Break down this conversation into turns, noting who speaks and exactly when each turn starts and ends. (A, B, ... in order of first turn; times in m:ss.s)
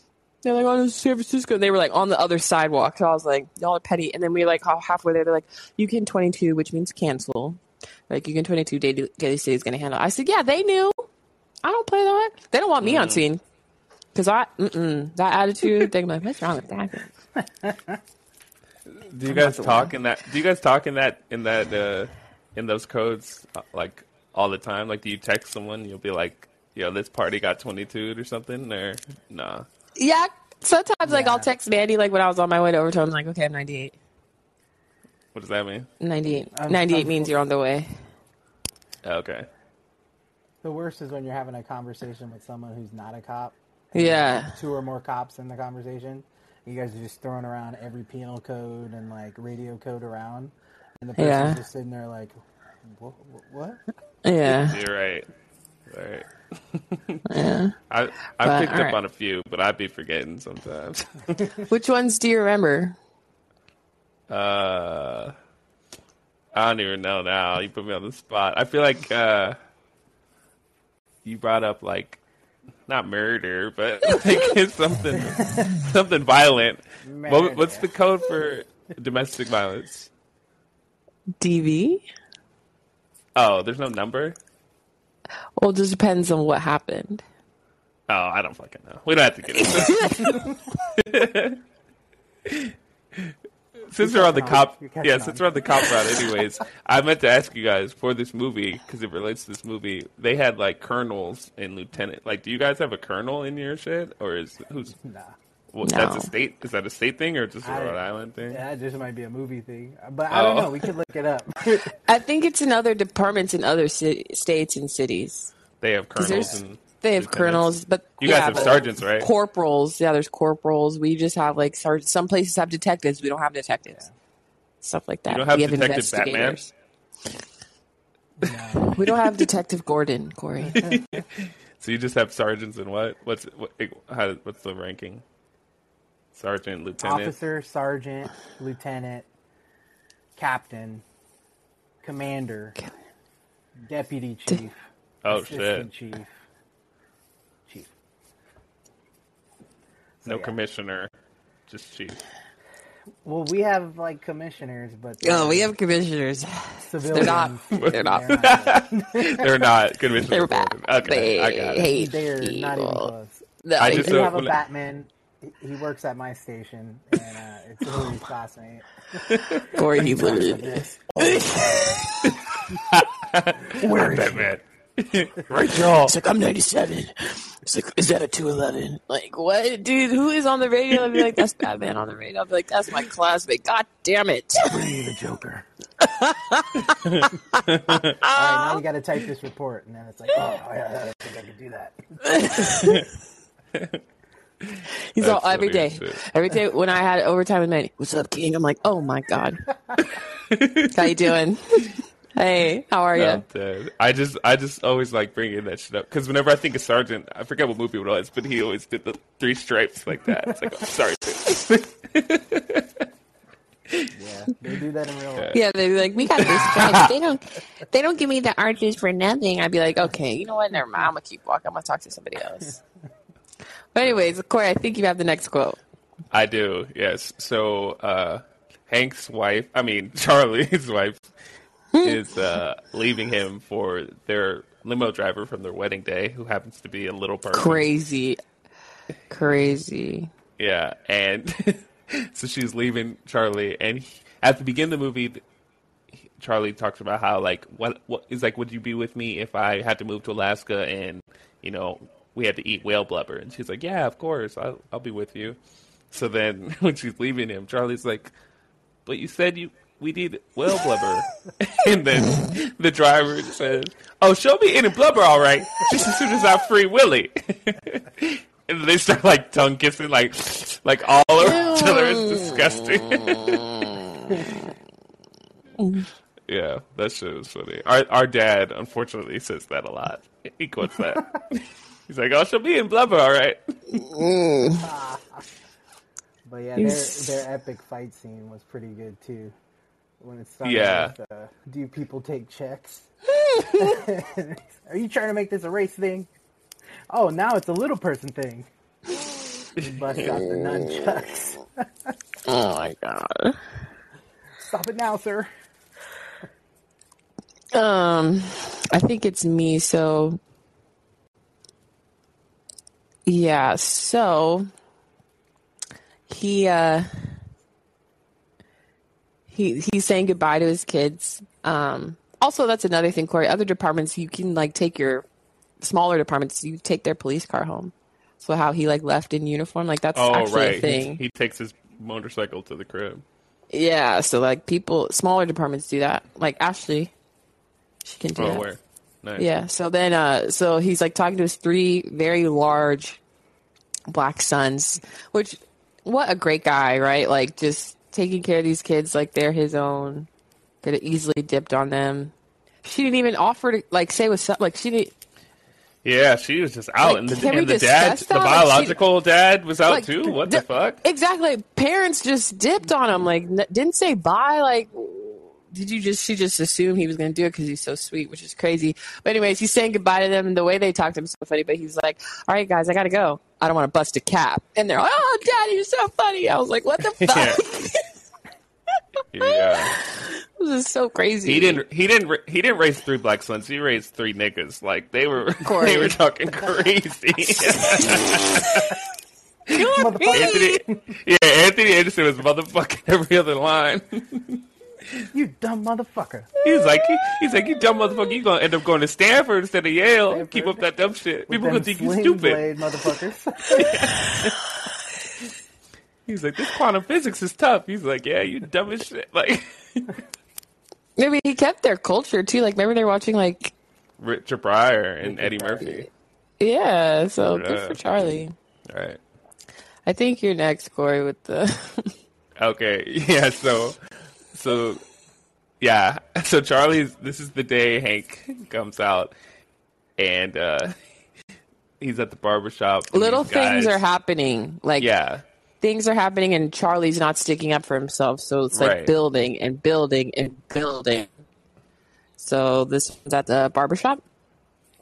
0:00.4-0:11.0 A
0:11.6-0:13.4 A
0:12.8-0:13.2 B
0:14.1-0:17.1 A
0:17.4-0:18.0 C
0:18.9-0:29.7 B
0:19.3-0:19.9 A
0:30.0-0:33.9 A
0:31.0-0:31.5 C
0:35.3-0:35.9 B
0:36.0-0:37.9 A
0:36.5-0:37.4 C
0:39.0-0:39.5 B
0:40.6-0:53.8 C
0:43.9-0:44.6 A
0:51.2-0:51.6 A
0:54.2-0:54.8 A
0:54.4-0:55.3 B
0:55.9-0:57.2 B
0:57.3-0:57.8 A
0:57.9-1:01.6 B
0:58.4-0:59.0 A
1:01.7-1:03.0 A
1:04.3-1:05.3 B
1:06.5-1:09.6 B
1:11.2-1:12.2 B
1:12.9-1:20.1 B
1:15.2-1:15.6 C
1:17.0-1:17.9 C
1:21.4-1:22.0 A
1:23.4-1:24.4 B
1:25.6-1:27.2 A
1:28.1-1:31.6 B
1:29.6-1:30.4 A
1:32.4-1:33.3 B
1:33.9-1:45.0 B
1:34.0-1:35.8 C
1:45.0-1:45.4 C
1:45.7-1:48.6 B
1:45.8-1:46.3 A
1:47.6-1:51.9 C
1:50.3-1:50.9 B
1:52.0-1:55.5 A
1:55.8-1:59.3 B
1:56.2-2:04.0 A
1:56.3-1:56.6 C
1:58.4-1:58.8 C
2:04.8-2:06.7 A
2:05.3-2:06.6 B
2:08.4-2:09.0 C
2:08.9-2:10.9 A
2:10.7-2:11.2 C
2:10.8-2:15.2 B
2:16.3-2:17.3 B
2:17.0-2:19.3 C
2:20.4-2:21.0 C
2:22.0-2:22.8 C
2:23.8-2:26.3 C
2:25.2-2:25.9 B
2:27.6-2:27.9 C
2:30.2-2:30.6 C
2:30.2-2:31.1 B
2:31.7-2:32.2 B
2:33.2-2:35.7 C
2:35.2-2:38.3 A
2:36.9-2:39.5 C
2:37.7-2:41.9 B
2:40.3-2:43.1 A
2:41.8-2:52.0 C
2:43.6-2:44.3 A
2:43.8-2:44.6 B
2:49.2-2:49.8 B
2:49.6-2:52.4 A
2:52.2-2:56.1 B
2:53.7-2:54.5 C
2:53.8-2:54.2 A
2:55.6-2:56.1 C
2:55.8-3:04.9 A
3:04.6-3:05.6 C
3:06.0-3:08.8 A
3:06.9-3:08.2 B
3:08.3-3:12.7 C
3:12.2-3:13.1 A
3:12.6-3:13.1 B
3:13.7-3:14.0 B
3:14.6-3:16.2 B
3:15.1-3:19.7 A
3:20.0-3:21.1 B
3:20.8-3:23.4 A
3:23.1-3:33.0 B
3:34.1-3:35.5 C
3:35.5-3:42.8 A
3:36.4-3:37.1 B
3:43.9-3:45.8 A
3:46.3-3:51.3 B
3:51.9-3:52.2 A
3:52.0-3:57.9 B
3:57.5-3:58.4 A
3:59.3-4:00.3 A
4:00.6-4:05.4 B
4:06.4-4:15.6 B
4:16.1-4:18.3 B
4:19.0-4:34.0 B
4:31.4-4:34.7 A
4:35.8-4:36.1 A
4:36.5-4:43.6 B
4:43.9-4:44.9 A
4:44.8-4:45.5 C
4:46.4-4:49.5 C
4:46.8-4:47.4 A
4:50.2-4:56.3 C
4:50.6-4:51.1 B
4:53.3-4:54.0 A
4:57.1-4:58.7 C
4:59.8-5:02.1 C
4:59.8-5:00.2 B
5:00.3-5:01.4 A
5:02.4-5:03.6 A
5:04.6-5:05.5 C
5:07.7-5:10.4 A
5:13.2-5:14.7 A
5:16.3-5:17.4 A
5:19.5-5:25.2 A
5:25.8-5:31.2 A
5:30.1-5:33.2 B
5:33.7-5:37.1 A
5:38.0-5:38.7 A
5:38.4-5:39.5 B
5:39.4-5:43.2 A
5:44.1-5:50.3 A
5:50.8-5:52.3 A
5:52.8-5:55.1 A
5:56.0-6:01.0 B
5:57.0-5:59.0 A
5:59.9-6:18.1 A
6:17.1-6:17.6 B
6:19.3-6:19.9 B
6:19.4-6:21.8 A
6:21.4-6:29.0 B
6:25.6-6:26.2 A
6:27.9-6:28.3 A
6:29.7-6:34.6 B
6:29.7-6:30.8 A
6:29.9-6:31.1 C
6:35.3-6:36.5 C
6:36.6-6:42.6 B
6:40.3-6:40.8 C
6:41.5-6:44.1 C
6:43.8-6:44.6 B
6:46.2-6:50.2 B
6:51.2-6:53.7 A
6:54.2-6:56.1 B
6:55.3-6:56.0 C
6:56.6-6:58.5 A
6:57.4-6:58.0 B
6:58.9-6:59.2 B
7:00.0-7:02.1 A
7:02.6-7:05.0 B
7:05.8-7:09.3 B
7:10.2-7:10.9 B
7:12.0-7:14.0 B
7:13.1-7:15.1 A
7:15.0-7:15.4 B
7:15.8-7:21.3 A
7:18.7-7:19.1 B
7:22.4-7:24.2 A